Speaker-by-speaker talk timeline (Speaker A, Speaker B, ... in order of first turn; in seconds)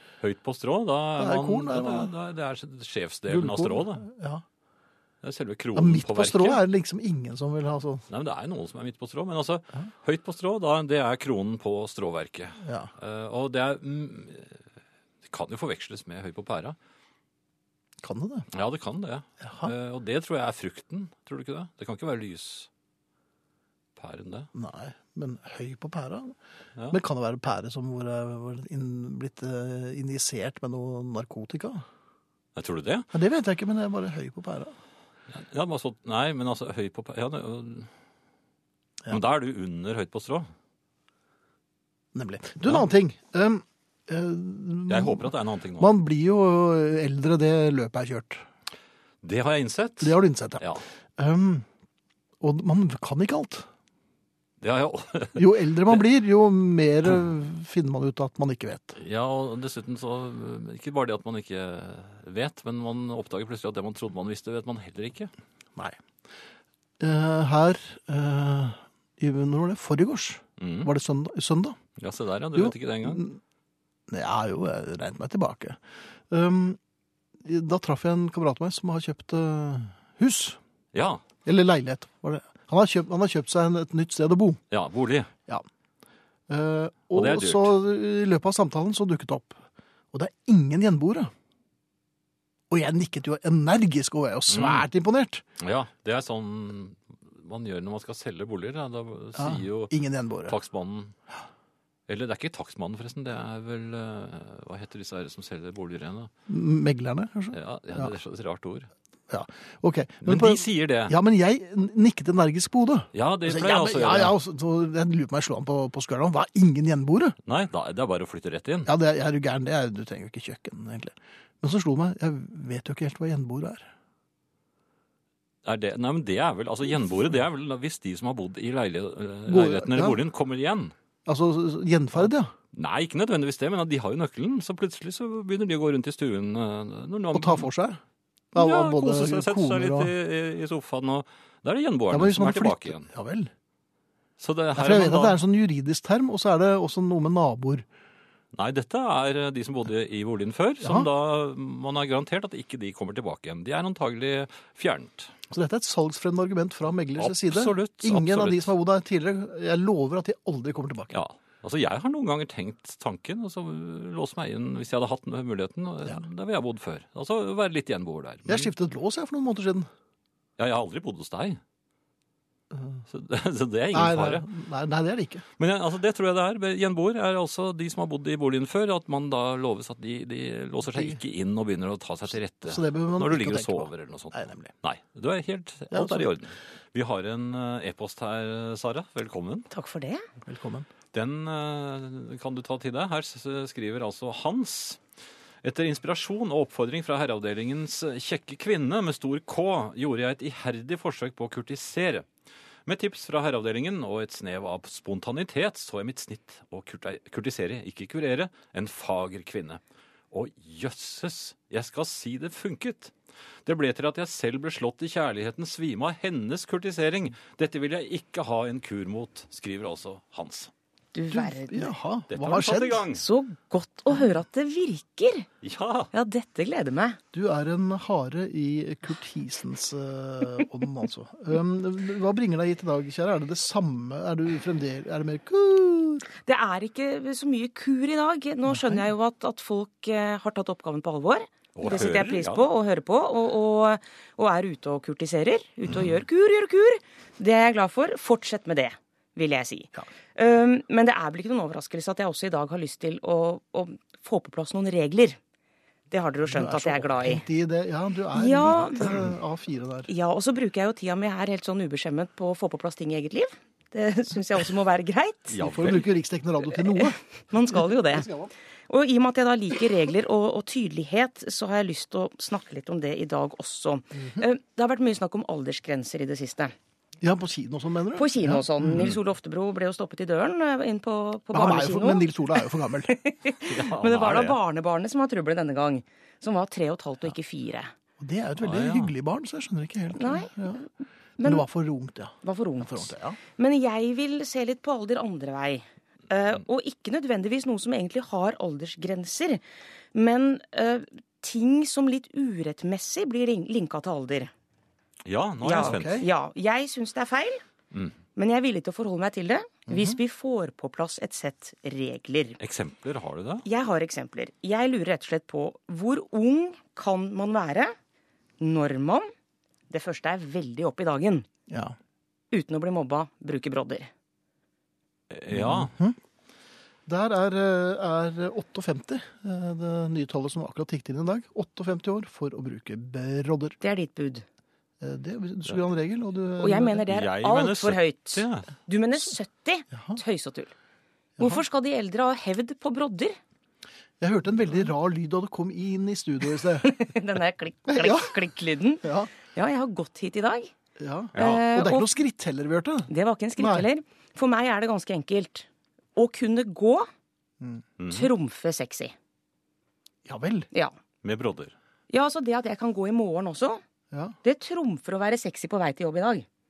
Speaker A: 0.2-4.0, 5.2-6.6, 8.1-14.6, 15.2-16.8, 18.5-22.7, 23.9-24.5, 32.5-33.1, 35.3-37.9, 39.1-40.5, 44.9-45.9, 49.2-50.8, 54.6-56.0, 59.0-65.3, 70.6-70.9, 72.0-73.2, 80.9-81.2, 84.7-85.3, 87.1-87.8, 94.5-94.8, 95.6-99.9, 100.5-101.1, 102.1-106.3, 107.5-108.9, 110.2-111.1, 113.1-114.4, 117.4-118.9, 125.6-130.9, 132.2-137.7, 138.6-143.1, 144.4-145.4, 148.5-155.3, 157.2-158.7, 161.1-168.7, 170.6-171.6, 173.1-174.5, 175.6-189.7, 191.1-195.0, 195.6-202.3, 202.8-220.7, 222.3-223.2, 225.6-226.1, 241.8-242.7, 265.5-266.1, 283.7-284.6, 288.6-289.1, 305.2-306.2, 312.6-313.6, 325.3-325.9, 337.1-338.7, 351.3-351.7, 358.0-358.3, 361.2-361.7
Speaker B: 1.2-2.1, 3.3-4.4, 5.7-8.1, 12.6-12.9, 18.0-18.5, 19.4-19.7, 24.5-26.4, 26.9-31.8, 33.1-34.8, 42.1-48.4, 50.0-51.7, 52.4-53.7, 55.4-59.0, 67.0-71.8, 72.5-73.4, 74.1-76.8, 77.4-80.6, 81.4-84.6, 86.5-89.6, 90.1-91.3, 92.7-95.4, 99.3-100.5, 106.5-108.1, 109.3-117.3, 118.8-123.9, 129.5-130.2, 131.2-132.5, 137.3-138.0, 138.5-140.1, 142.1-143.5, 144.8-147.8, 150.8-151.1, 155.5-161.1, 168.4-169.9, 172.7-173.0, 173.9-175.4, 180.9-181.2, 182.6-184.7, 185.9-186.3, 190.4-190.9, 221.3-223.1, 227.3-236.3, 238.7-239.1, 256.4-260.1, 265.6-268.5, 274.1-274.4, 277.2-279.1, 281.5-283.1, 288.2-290.9, 291.4-293.4, 305.8-306.2, 309.9-310.2, 321.7-321.9, 325.5-326.2, 327.1-333.8, 335.0-337.0, 339.9-340.2, 344.2-346.9, 347.9-348.4, 349.0-349.3, 351.0-353.9, 360.2-360.7
Speaker C: 189.7-190.3, 221.1-221.9, 223.1-225.5, 226.1-227.2, 236.4-255.4, 256.1-257.4, 258.3-259.1, 260.1-265.9, 266.7-268.3, 268.9-276.7, 278.2-287.9, 290.1-290.5, 291.4-291.7, 292.4-299.6, 300.1-304.5, 305.6-307.6, 308.4-312.6, 313.6-317.9, 318.6-319.3, 319.9-321.5, 322.5-324.1, 333.8-334.4, 336.6-340.7, 341.4-343.4, 346.8-350.7, 351.3-352.1, 353.1-357.1, 358.1-359.1, 362.1-363.8, 364.4-366.4